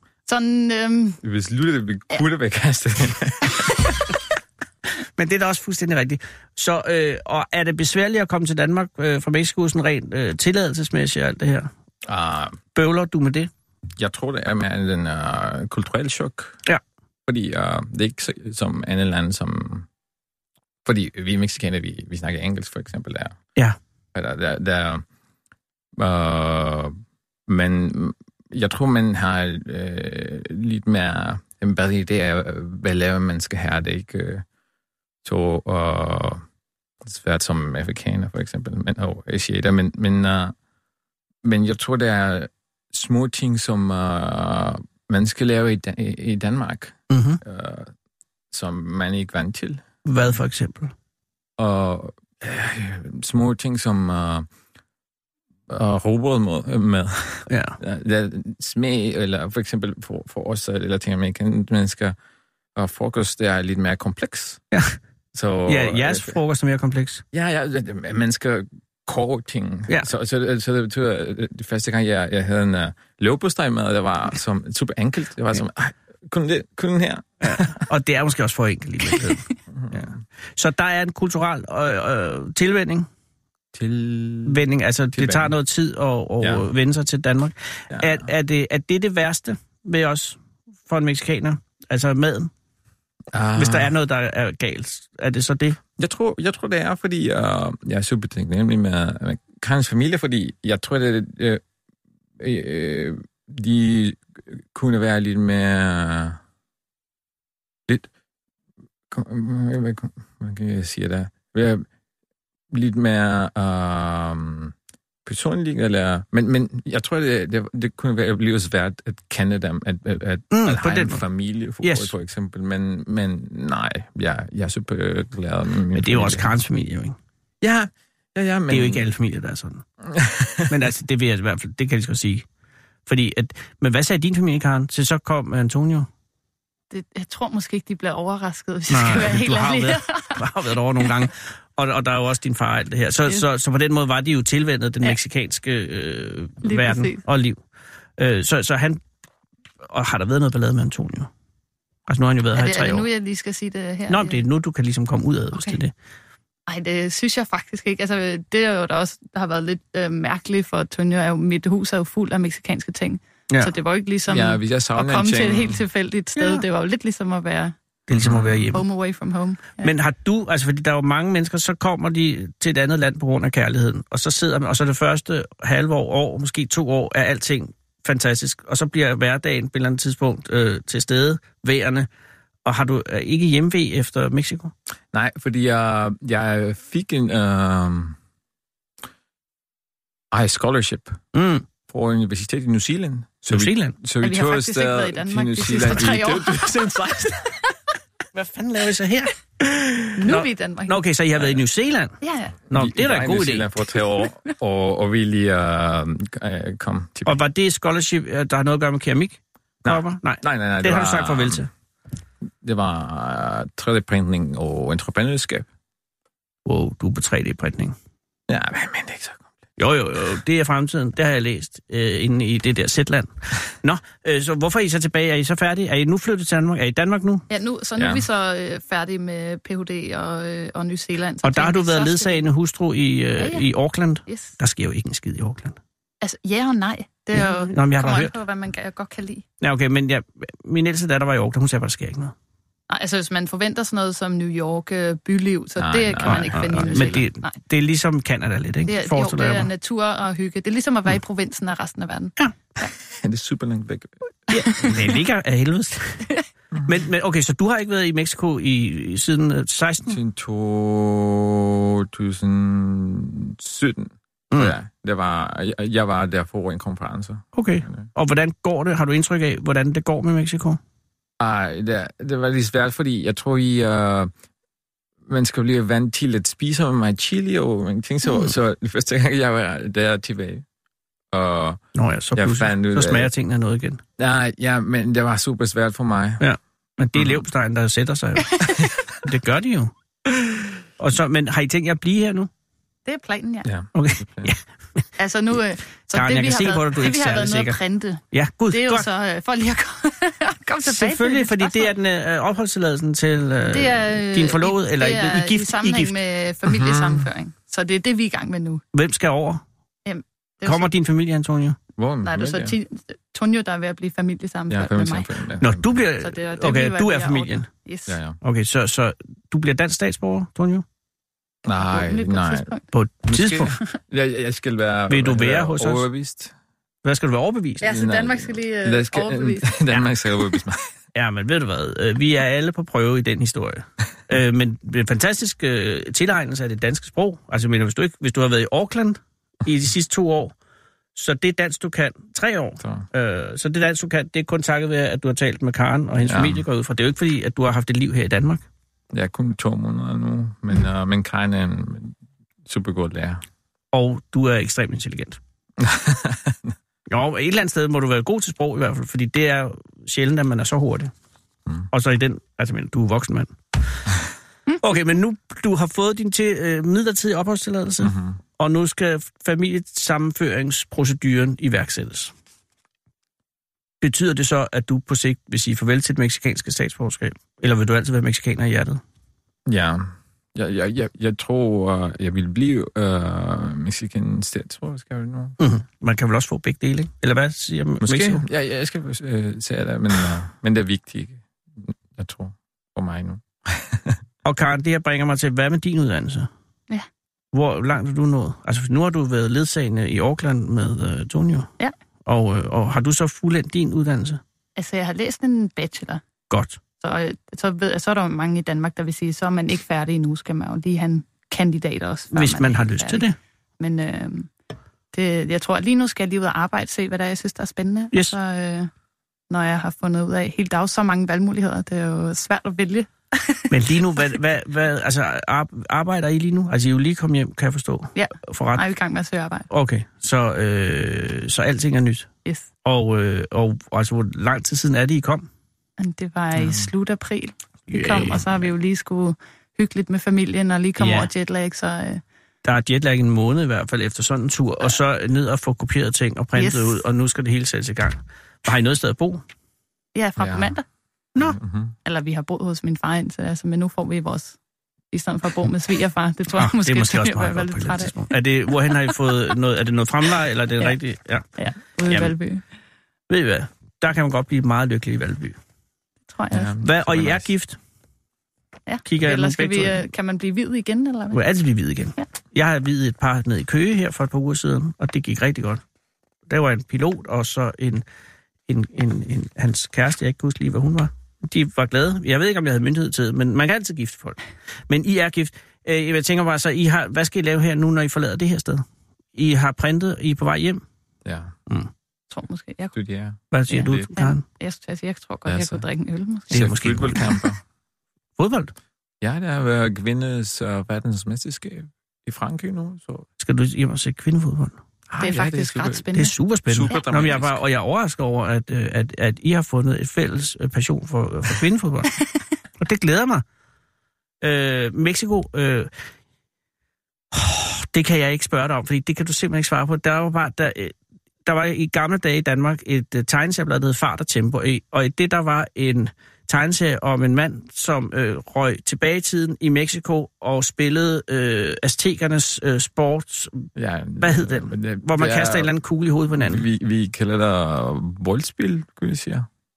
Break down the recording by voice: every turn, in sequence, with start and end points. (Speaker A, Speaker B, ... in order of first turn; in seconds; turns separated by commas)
Speaker A: 0.3-1.2, Speaker B: 1.2-3.9, Speaker C: 5.2-11.7, Speaker B: 12.0-12.6, Speaker C: 12.7-13.5, Speaker B: 14.0-16.6, Speaker B: 17.3-19.9, Speaker B: 20.8-23.4, Speaker B: 24.1-25.0, Speaker B: 26.0-34.4, Speaker B: 35.2-36.4, Speaker B: 37.0-40.5, Speaker B: 41.4-47.9, Speaker C: 47.1-47.4, Speaker B: 48.5-49.8, Speaker C: 50.0-50.9, Speaker B: 51.6-54.5, Speaker B: 55.7-62.1, Speaker C: 57.5-57.8, Speaker B: 62.8-64.6, Speaker C: 64.7-65.0, Speaker B: 65.3-66.4, Speaker C: 65.7-67.2, Speaker B: 67.3-77.8, Speaker C: 77.4-83.1, Speaker B: 79.7-80.2, Speaker B: 83.7-85.5, Speaker C: 84.5-92.5, Speaker B: 86.4-86.7, Speaker B: 87.9-88.2, Speaker B: 93.3-93.9, Speaker C: 93.5-95.8, Speaker B: 96.0-101.6, Speaker B: 102.4-106.4, Speaker B: 109.1-111.8, Speaker B: 112.7-114.7, Speaker B: 115.2-126.5, Speaker C: 120.5-121.2, Speaker C: 121.8-122.1, Speaker C: 125.9-127.2, Speaker B: 127.6-129.1, Speaker C: 128.7-129.8, Speaker B: 130.1-130.7, Speaker C: 130.7-132.4, Speaker C: 133.1-136.1, Speaker A: 136.9-140.4, Speaker C: 138.9-147.6, Speaker A: 141.0-141.2, Speaker A: 146.6-147.2, Speaker C: 148.2-149.0, Speaker C: 149.8-151.3, Speaker C: 152.1-153.1, Speaker A: 152.5-154.4, Speaker C: 154.1-155.9, Speaker A: 156.7-167.7, Speaker B: 164.3-165.8, Speaker C: 166.3-166.6, Speaker C: 168.1-168.8, Speaker B: 168.1-168.8, Speaker A: 168.7-169.9, Speaker C: 169.8-182.1, Speaker C: 182.6-184.7, Speaker B: 185.1-188.2, Speaker B: 190.3-191.2, Speaker C: 191.3-191.6, Speaker B: 191.9-197.5, Speaker C: 193.5-194.0, Speaker A: 194.2-196.8, Speaker C: 198.3-199.3, Speaker B: 199.6-200.1, Speaker A: 200.2-201.0, Speaker C: 200.2-202.2, Speaker A: 202.2-202.6, Speaker C: 202.7-203.7, Speaker B: 202.7-207.4, Speaker C: 207.2-211.7, Speaker B: 209.8-211.7, Speaker B: 212.6-215.7, Speaker C: 216.6-217.9, Speaker B: 218.5-219.4, Speaker C: 219.8-227.5, Speaker A: 227.5-232.4, Speaker B: 228.0-228.2, Speaker C: 231.4-235.8, Speaker A: 233.4-233.7, Speaker A: 234.3-234.5, Speaker A: 236.2-239.4, Speaker C: 237.3-238.3, Speaker C: 239.6-242.3, Speaker A: 242.9-247.6, Speaker B: 245.8-247.2, Speaker C: 246.2-249.7, Speaker A: 248.8-252.9, Speaker B: 253.1-254.1, Speaker C: 254.5-256.2, Speaker C: 256.8-260.2, Speaker B: 260.1-268.1, Speaker C: 267.5-270.8, Speaker B: 271.4-274.3, Speaker B: 275.3-280.6, Speaker B: 281.3-281.8, Speaker C: 281.9-284.0, Speaker B: 282.3-283.3, Speaker B: 284.2-286.4, Speaker C: 286.4-289.9, Speaker B: 287.1-287.4, Speaker B: 290.3-290.7, Speaker C: 291.0-292.5, Speaker A: 293.1-293.7, Speaker B: 293.6-294.5, Speaker C: 293.9-295.0, Speaker A: 295.2-301.9, Speaker C: 296.1-297.8, Speaker C: 298.3-299.1, Speaker C: 300.8-306.1, Speaker A: 303.7-308.8, Speaker B: 306.6-307.3, Speaker C: 308.9-309.6, Speaker A: 310.0-310.9, Speaker C: 310.6-311.8, Speaker B: 312.0-312.8, Speaker A: 312.2-315.3, Speaker B: 314.7-316.0, Speaker C: 315.6-317.7, Speaker A: 316.2-318.2, Speaker B: 318.1-318.4, Speaker C: 318.4-320.8, Speaker B: 321.6-322.7, Speaker A: 321.7-322.8, Speaker C: 322.9-323.8, Speaker B: 323.2-326.5, Speaker C: 325.1-326.1, Speaker C: 327.0-328.0, Speaker A: 327.8-329.8, Speaker B: 327.9-330.9, Speaker C: 331.1-340.5, Speaker C: 341.1-348.6, Speaker B: 342.8-343.1, Speaker B: 346.2-346.6, Speaker B: 349.1-353.4, Speaker C: 353.9-355.4, Speaker B: 355.8-356.7, Speaker C: 357.1-361.1, Speaker C: 361.9-363.8, Speaker C: 364.8-372.3, Speaker B: 368.0-368.4, Speaker C: 374.0-379.0, Speaker B: 379.6-385.6, Speaker C: 385.6-388.4, Speaker B: 388.0-394.2, Speaker C: 394.4-396.5, Speaker C: 397.5-401.7, Speaker C: 402.2-404.4, Speaker A: 404.8-406.2, Speaker C: 406.5-406.8, Speaker A: 407.0-413.2, Speaker C: 412.3-413.4, Speaker A: 413.8-414.5, Speaker A: 415.1-418.9, Speaker A: 419.5-423.7, Speaker C: 423.7-428.9, Speaker A: 428.1-429.7, Speaker C: 429.7-432.3, Speaker C: 432.8-435.5, Speaker A: 436.0-442.2, Speaker B: 436.6-436.9, Speaker C: 437.9-438.4, Speaker C: 441.0-441.3, Speaker C: 442.6-449.4, Speaker A: 446.6-447.0, Speaker A: 450.1-450.8, Speaker B: 450.4-450.7, Speaker B: 451.4-451.9, Speaker A: 452.0-454.6, Speaker A: 455.1-458.2, Speaker C: 456.5-461.5, Speaker A: 461.6-462.6, Speaker C: 462.1-462.3, Speaker C: 463.3-465.6, Speaker A: 466.3-466.7, Speaker B: 466.5-467.5, Speaker C: 466.8-467.8, Speaker A: 468.9-471.4, Speaker C: 469.0-470.0, Speaker C: 471.3-475.8, Speaker C: 476.5-478.0, Speaker C: 478.7-484.4, Speaker C: 484.9-490.8, Speaker B: 491.2-491.5, Speaker A: 492.3-492.9, Speaker B: 492.9-494.1, Speaker C: 493.5-494.4, Speaker A: 493.7-496.7, Speaker B: 495.4-495.8, Speaker C: 496.5-497.4, Speaker B: 496.5-497.6, Speaker C: 498.4-498.7, Speaker B: 499.2-503.3, Speaker C: 503.4-504.8, Speaker B: 505.1-506.1, Speaker A: 505.2-506.4, Speaker C: 506.1-512.1, Speaker B: 506.7-507.6, Speaker C: 512.8-513.4, Speaker C: 514.4-515.9, Speaker C: 517.3-520.9, Speaker C: 521.5-533.7, Speaker B: 533.8-535.7, Speaker C: 534.2-536.6, Speaker B: 536.3-539.5